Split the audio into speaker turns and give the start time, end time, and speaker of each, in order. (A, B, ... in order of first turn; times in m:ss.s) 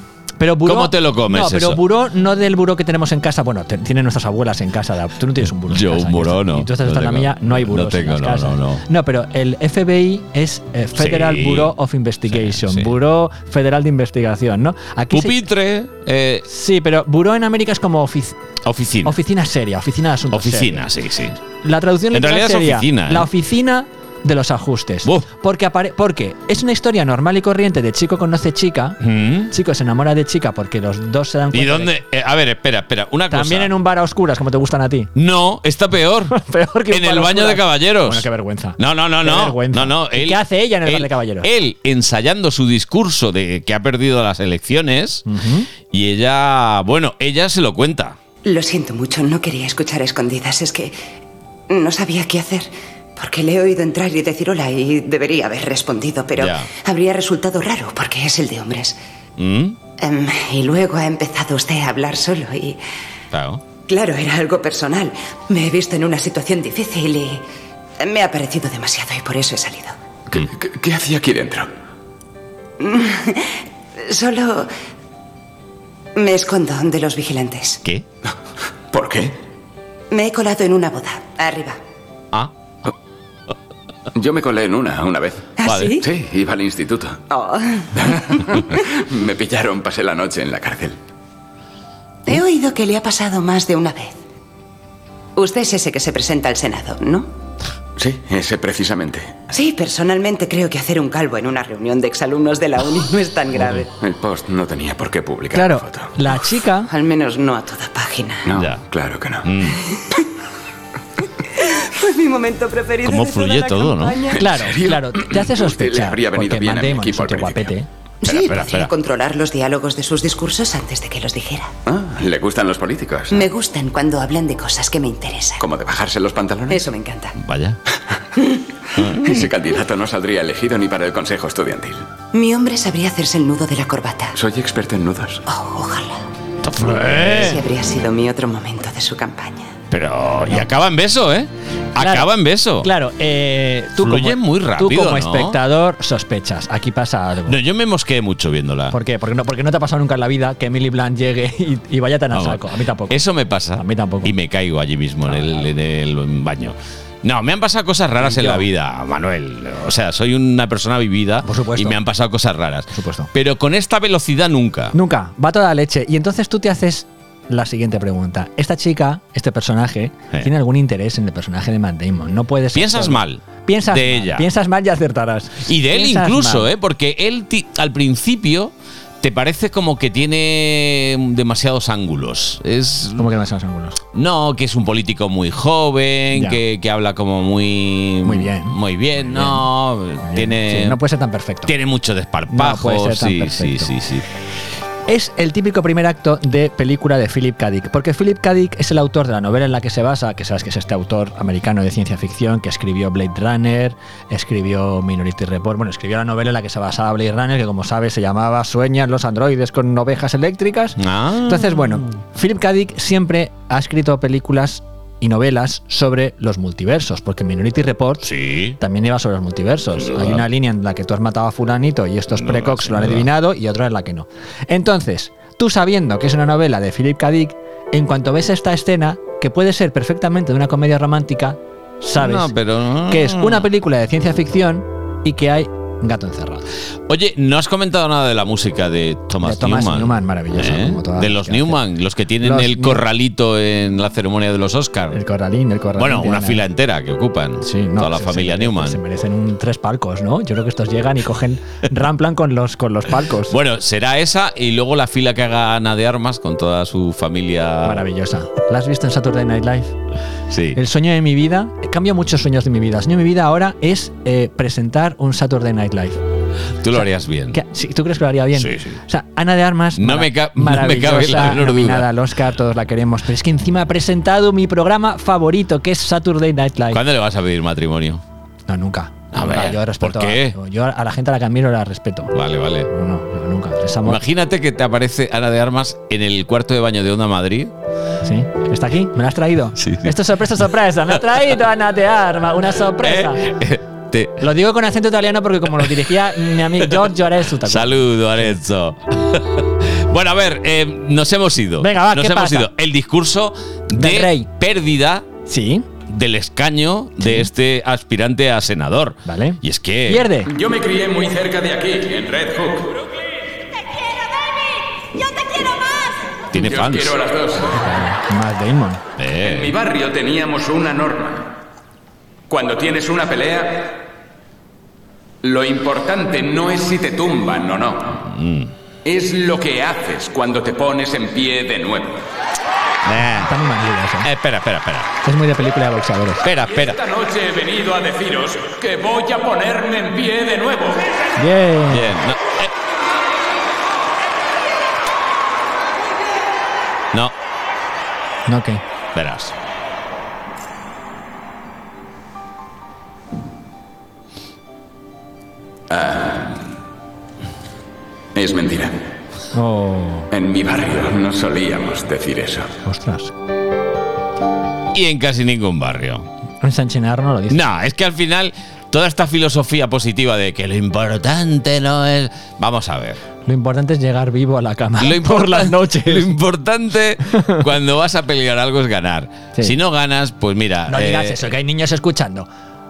0:00.4-0:15.4 A
0:00.6-0:01.8 B
0:05.7-0:08.8 B
0:11.0-0:11.7 B
0:12.3-0:12.9 B
0:15.1-0:16.4 B
0:16.5-0:18.4 A
0:18.6-0:19.1 B
0:19.0-0:20.9 A
0:20.3-0:21.4 B
0:21.6-0:32.0 A
0:22.1-0:23.3 B
0:29.0-0:29.5 B
0:31.5-0:33.7 B
0:33.3-0:35.1 A
0:35.1-0:36.3 B
0:36.3-0:41.5 A
0:36.9-0:38.3 B
0:38.8-0:45.2 B
0:45.2-0:45.7 A
0:45.9-0:48.2 B
0:48.4-0:51.0 C
0:51.7-0:59.0 C
0:56.4-0:56.7 B
0:59.4-0:59.8 B
1:00.0-1:02.8 C
1:03.3-1:03.6 B
1:03.8-1:07.4 C
1:08.0-1:10.0 C
1:10.3-1:11.7 D
1:12.8-1:14.7 C
1:16.2-1:17.8 C
1:18.9-1:19.3 D
1:20.1-1:21.8 C
1:24.1-1:27.2 D
1:25.6-1:26.0 C
1:25.6-1:26.0 B
1:27.3-1:27.9 C
1:28.0-1:31.0 D
1:32.2-1:34.2 C
1:35.4-1:37.3 C
1:38.0-1:39.4 D
1:39.5-1:43.9 C
1:43.8-1:46.3 D
1:45.5-1:46.9 A
1:46.9-1:48.5 C
1:48.4-1:49.7 D
1:48.5-1:48.8 B
1:49.4-1:49.8 B
1:51.6-1:54.6 C
1:53.0-1:54.2 B
1:54.3-1:57.7 D
1:54.4-1:57.9 A
1:58.2-2:01.7 C
1:58.3-1:58.9 B
2:01.8-2:03.5 D
2:03.3-2:05.6 C
2:05.6-2:06.8 D
2:06.7-2:07.4 C
2:07.4-2:07.8 B
2:09.0-2:09.2 B
2:09.0-2:12.0 D
2:12.3-2:14.4 C
2:14.3-2:15.4 D
2:15.4-2:16.2 C
2:16.6-2:17.6 B
2:16.8-2:17.5 A
2:17.1-2:19.7 C
2:19.9-2:22.9 B
2:20.4-2:20.7 A
2:22.0-2:22.3 A
2:22.8-2:27.6 A
2:24.0-2:25.6 B
2:27.5-2:28.9 B
2:28.9-2:33.2 A
2:32.3-2:44.9 B
2:33.8-2:34.3 A
2:35.2-2:35.7 A
2:38.2-2:38.7 A
2:41.4-2:42.0 A
2:42.9-2:43.3 A
2:44.9-2:56.7 A
2:52.7-2:54.4 B
2:55.6-3:03.2 B
3:03.2-3:04.0 A
3:04.1-3:11.0 B
3:06.3-3:06.6 A
3:08.2-3:09.7 A
3:10.2-3:11.7 A
3:11.6-3:14.2 B
3:12.5-3:13.9 A
3:15.1-3:38.2 A
3:31.0-3:31.8 B
3:38.2-3:38.8 B
3:38.8-3:52.6 A
3:40.0-3:40.4 B
3:42.3-3:43.3 B
3:52.1-3:53.7 B
3:53.1-3:56.6 A
3:57.1-4:05.2 B
3:59.4-4:01.8 A
4:02.4-4:03.0 A
4:05.1-4:06.6 A
4:06.0-4:09.0 B
4:07.6-4:13.6 A
4:13.5-4:18.0 B
4:17.8-4:19.9 A
4:20.5-4:20.8 B
4:20.7-4:26.2 A
4:26.8-4:27.6 B
4:26.9-4:37.0 A
4:28.5-4:29.0 B
4:30.0-4:32.1 B
4:36.9-4:38.2 B
4:38.7-4:42.3 A
4:39.3-4:40.5 B
4:42.3-4:42.9 B
4:42.9-4:44.2 A
4:44.0-4:47.7 B
4:48.2-4:53.4 A
4:49.8-4:50.1 B
4:53.0-4:54.4 B
4:54.4-4:58.5 A
4:57.6-5:05.2 B
5:01.8-5:02.7 A
5:03.9-5:04.5 A
5:05.5-5:05.9 A
5:06.1-5:10.3 B
5:07.2-5:07.5 A
5:09.2-5:10.5 A
5:10.5-5:13.0 E
5:16.5-5:17.2 B
5:16.6-5:17.8 E
5:17.7-5:19.0 A
5:19.2-5:19.7 B
5:19.4-5:21.5 E
5:22.5-5:24.0 E
5:25.4-5:28.2 E
5:28.2-5:28.7 B
5:29.0-5:32.2 E
5:33.0-5:33.5 B
5:33.2-5:34.3 A
5:34.2-5:35.1 B
5:35.2-5:36.5 A
5:36.4-5:37.0 B
5:36.6-5:41.1 E
5:41.4-5:42.1 A
5:41.9-5:42.7 B
5:48.5-5:48.8 A
5:49.1-5:49.5 B
5:55.9-5:56.6 D
5:58.3-5:59.0 D
5:59.5-6:00.3 A
6:00.3-6:02.7 D
6:02.8-6:03.3 A
6:04.9-6:06.3 B
6:06.6-6:07.6 A
6:07.5-6:13.2 B
6:13.4-6:16.4 A
6:15.0-6:21.4 B
6:17.3-6:17.6 A
6:20.9-6:22.5 A